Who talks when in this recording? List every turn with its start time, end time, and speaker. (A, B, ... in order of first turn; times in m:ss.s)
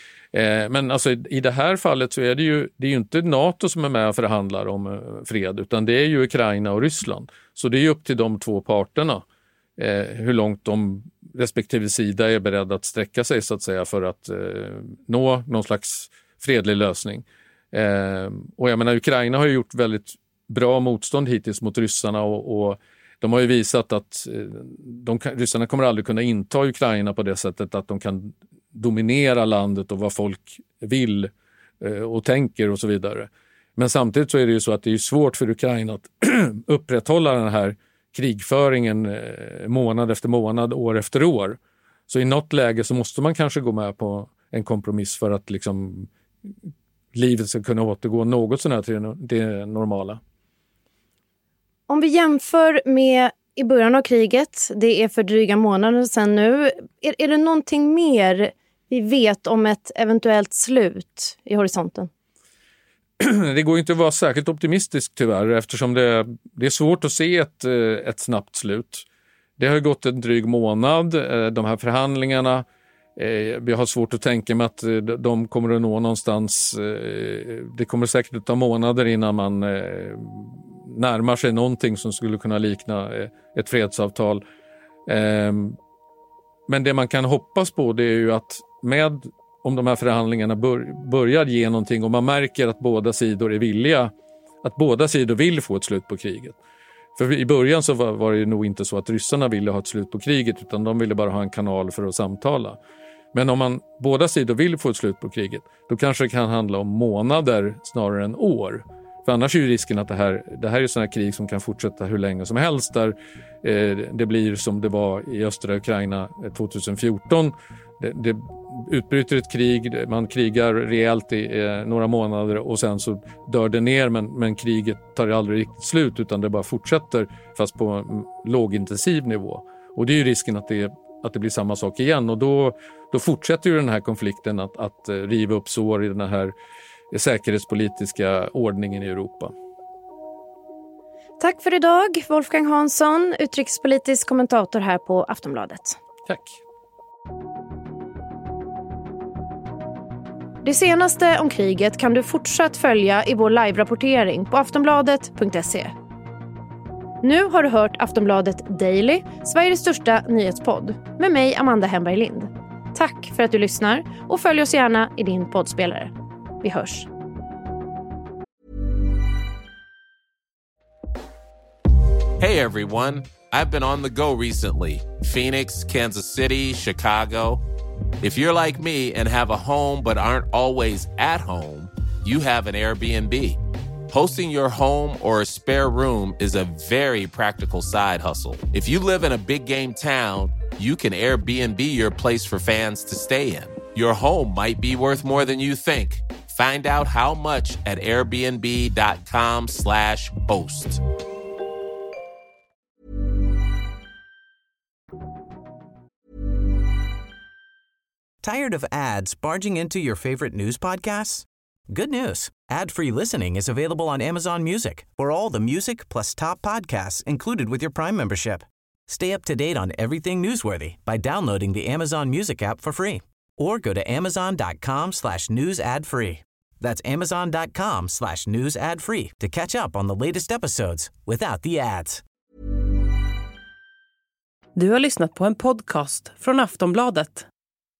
0:00.3-0:09.2 A
0:09.8-0:46.1 A
0:47.1-0:50.2 A
0:51.9-1:02.1 B
1:03.2-1:09.0 A
1:09.6-1:12.6 A
1:13.2-1:24.4 A
1:25.1-1:25.8 A
1:26.7-1:36.6 A
1:37.2-1:42.8 A
1:43.3-2:16.5 A
2:17.1-2:19.5 A
2:21.4-2:26.0 B
2:26.2-2:26.6 A
2:30.6-2:35.9 B
2:37.2-2:47.1 B
2:52.4-2:57.6 C
2:58.2-3:03.6 C
3:04.1-3:21.0 C
3:28.4-3:52.2 D
3:54.8-3:57.4 E